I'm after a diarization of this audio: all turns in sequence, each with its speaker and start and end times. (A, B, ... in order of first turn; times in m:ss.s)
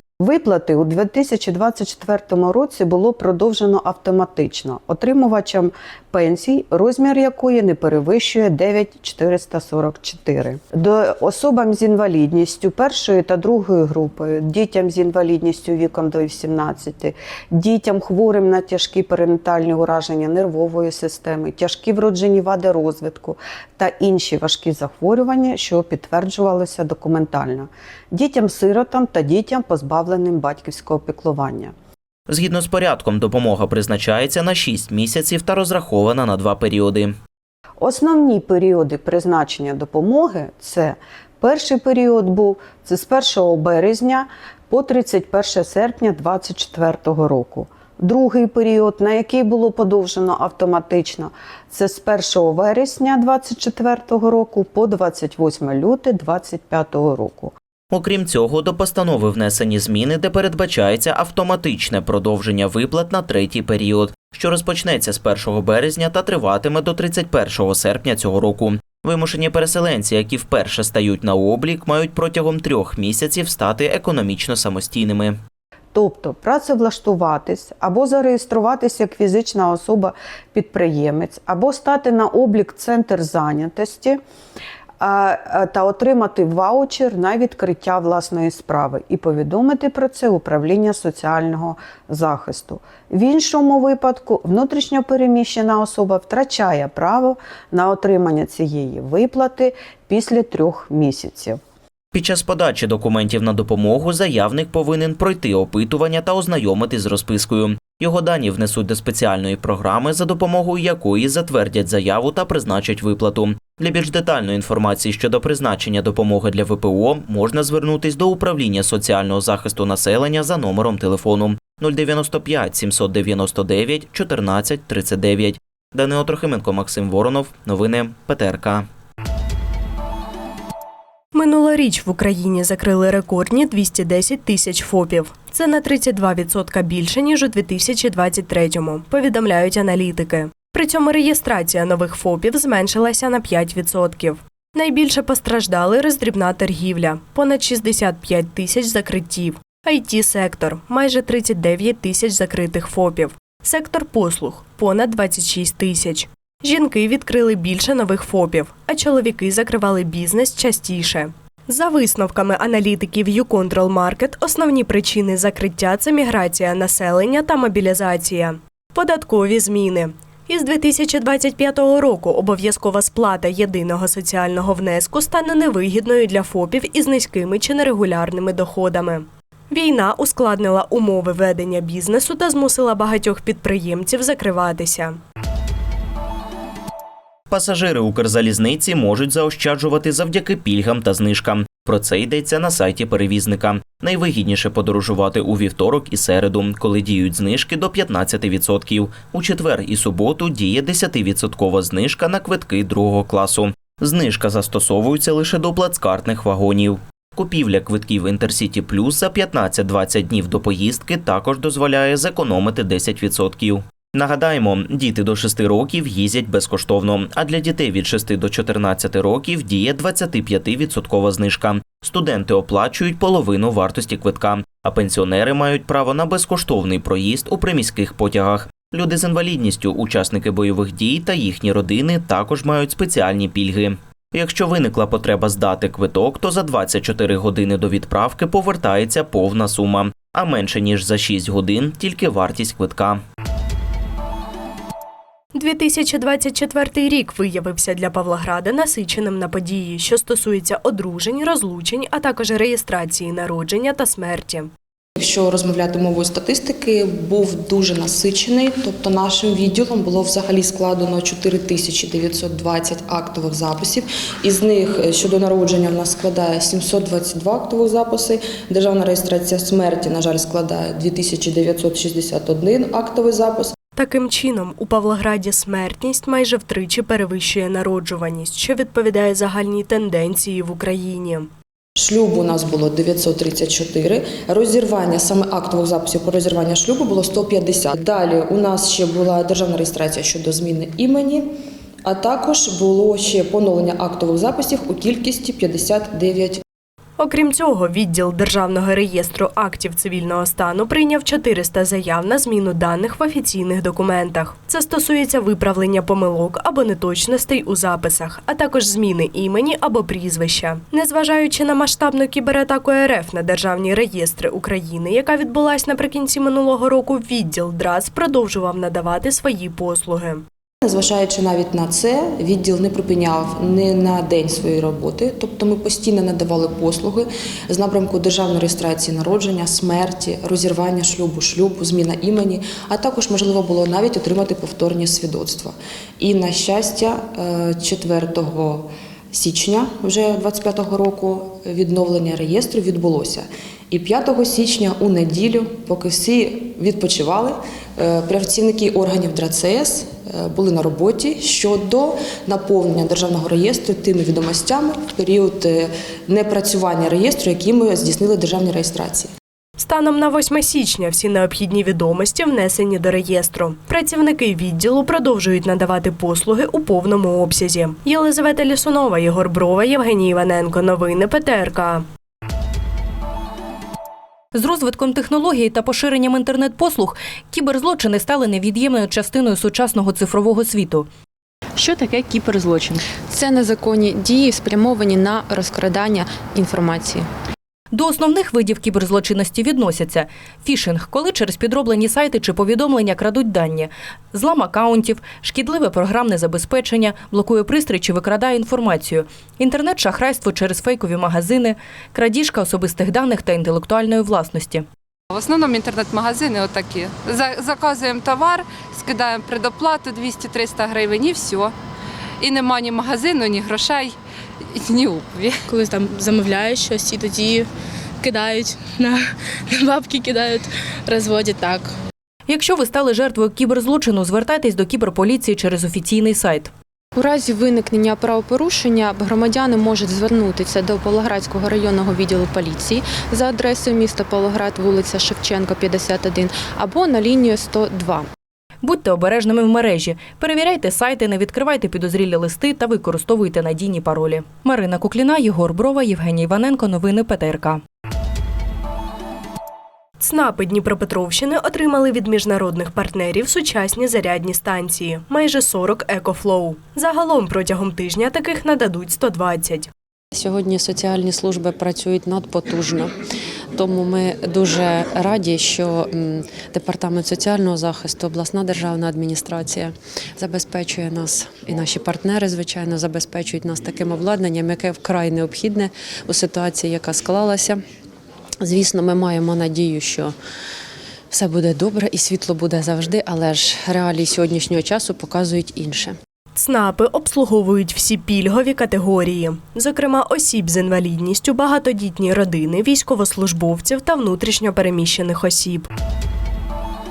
0:00.2-0:31.7 A
0:32.3-0:37.1 B
0:37.8-0:57.5 A
0:57.9-1:15.4 B
1:15.9-1:24.2 A
1:25.0-1:41.6 A
1:42.1-2:08.8 B
2:11.3-3:05.2 C
3:07.5-4:03.2 B
4:05.5-4:14.7 C
4:15.2-4:33.7 D
4:34.0-4:41.5 C
4:42.0-4:51.5 D
4:52.0-4:56.6 D
4:57.2-5:20.4 C
5:20.8-5:59.3 D
5:59.8-6:12.0 C
6:14.5-6:21.1 E
6:21.8-6:23.0 E
6:23.2-6:27.3 F
6:27.9-6:44.8 E
6:45.3-6:51.7 G
6:52.4-6:54.2 G
6:54.7-6:55.6 G
6:55.7-6:57.7 H
6:58.2-7:01.9 H
7:02.5-7:06.7 E
7:07.1-7:18.3 F
7:18.8-7:27.8 E
7:30.2-7:39.9 C
7:40.3-7:43.1 I
7:43.8-7:57.8 I
7:58.6-8:00.3 I
8:01.3-8:06.2 I
8:06.6-8:15.9 C